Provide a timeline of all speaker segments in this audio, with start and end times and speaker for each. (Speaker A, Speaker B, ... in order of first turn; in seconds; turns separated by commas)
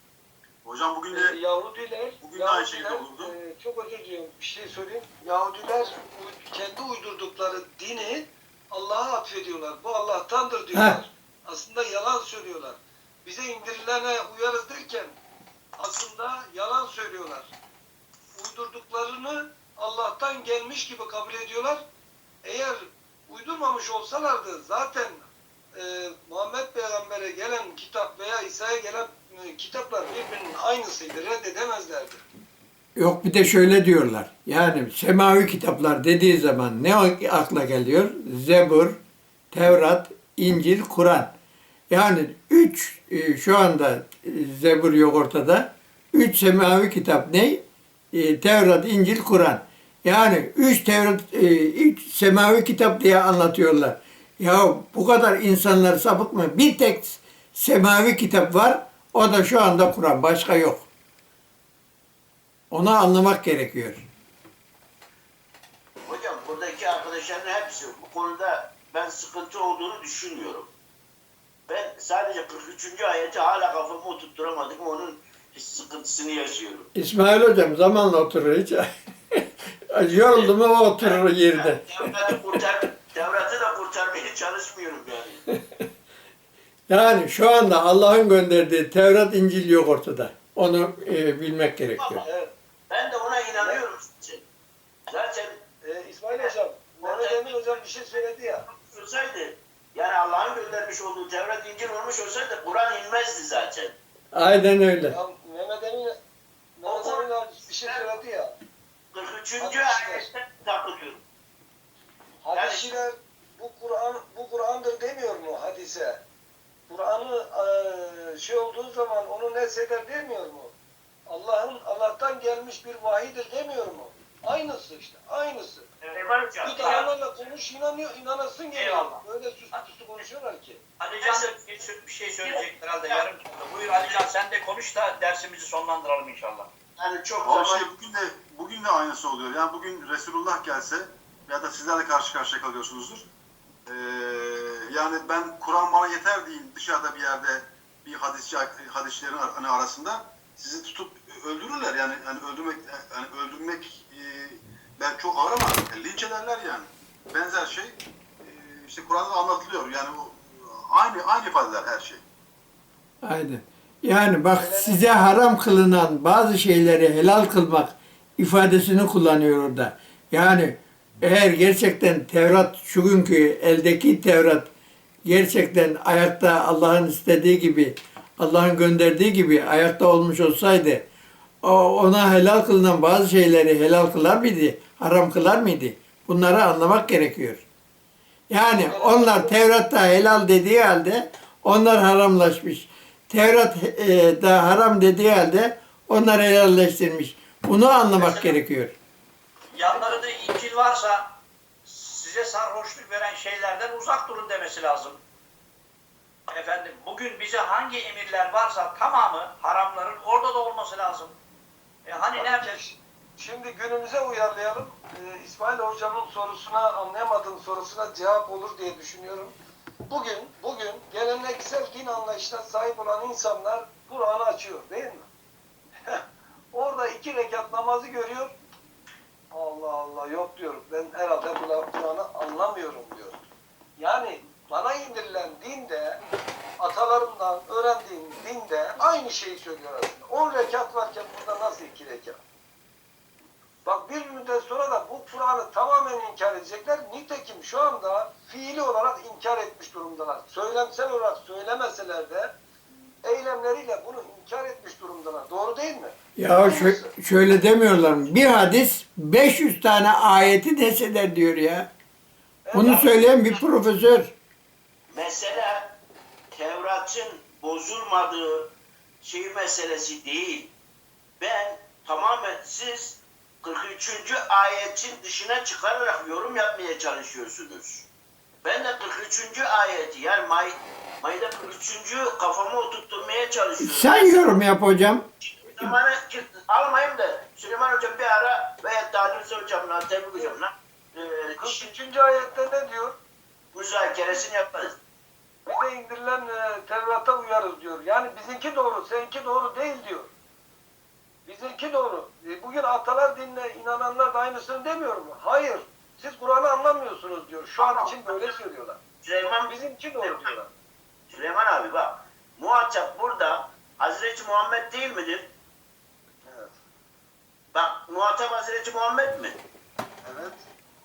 Speaker A: 0.6-1.4, Speaker B: 1.1-15.2, Speaker A: 2.2-3.3, Speaker C: 10.7-11.0, Speaker B: 15.8-17.5, Speaker B: 18.4-21.8, Speaker B: 22.4-32.2, Speaker C: 33.0-39.0, Speaker C: 39.5-41.3, Speaker C: 41.9-47.6, Speaker C: 48.1-60.9, Speaker C: 62.7-64.0, Speaker D: 66.1-70.7, Speaker D: 71.7-76.9, Speaker C: 77.0-81.8, Speaker D: 80.1-85.4, Speaker C: 86.9-92.2, Speaker D: 92.0-92.3, Speaker B: 92.2-92.5, Speaker D: 92.9-94.5, Speaker D: 95.1-95.6, Speaker B: 95.8-98.6, Speaker D: 96.3-97.8, Speaker D: 98.7-104.0, Speaker C: 104.3-105.2, Speaker B: 105.1-106.2, Speaker B: 106.8-108.5, Speaker D: 106.9-108.1, Speaker D: 109.1-111.2, Speaker B: 109.6-110.2, Speaker B: 112.4-116.2, Speaker D: 112.5-113.0, Speaker B: 116.9-120.7, Speaker B: 121.3-125.9, Speaker D: 126.1-127.0, Speaker B: 126.6-130.8, Speaker E: 126.7-127.1, Speaker E: 128.7-129.8, Speaker E: 131.0-136.7, Speaker D: 131.2-131.5, Speaker D: 132.4-133.2, Speaker D: 137.0-137.9, Speaker A: 137.4-143.3, Speaker A: 143.9-162.2, Speaker C: 163.2-174.7, Speaker B: 164.5-165.1, Speaker C: 175.2-181.1, Speaker C: 181.6-187.6, Speaker C: 188.5-198.9, Speaker B: 188.9-189.6, Speaker E: 198.1-198.6, Speaker E: 199.7-205.2, Speaker E: 206.5-211.3, Speaker E: 212.1-212.8, Speaker B: 212.4-219.6, Speaker B: 220.1-225.3, Speaker B: 226.1-228.6, Speaker B: 229.5-233.4, Speaker B: 234.0-236.2, Speaker B: 236.8-242.4, Speaker B: 243.8-252.5, Speaker B: 253.2-257.1, Speaker C: 256.4-261.9, Speaker B: 262.6-263.2, Speaker C: 262.7-264.3, Speaker D: 265.1-266.0, Speaker D: 266.5-270.7, Speaker D: 271.4-278.1, Speaker D: 278.6-284.6, Speaker C: 283.8-285.2, Speaker D: 285.5-291.9, Speaker B: 291.6-293.2, Speaker D: 293.7-295.0, Speaker B: 295.7-300.3, Speaker B: 301.5-309.0, Speaker D: 307.8-308.5, Speaker D: 309.2-309.7, Speaker B: 309.7-310.7, Speaker D: 311.3-315.5, Speaker B: 316.4-316.8, Speaker D: 317.7-319.6, Speaker B: 320.2-320.6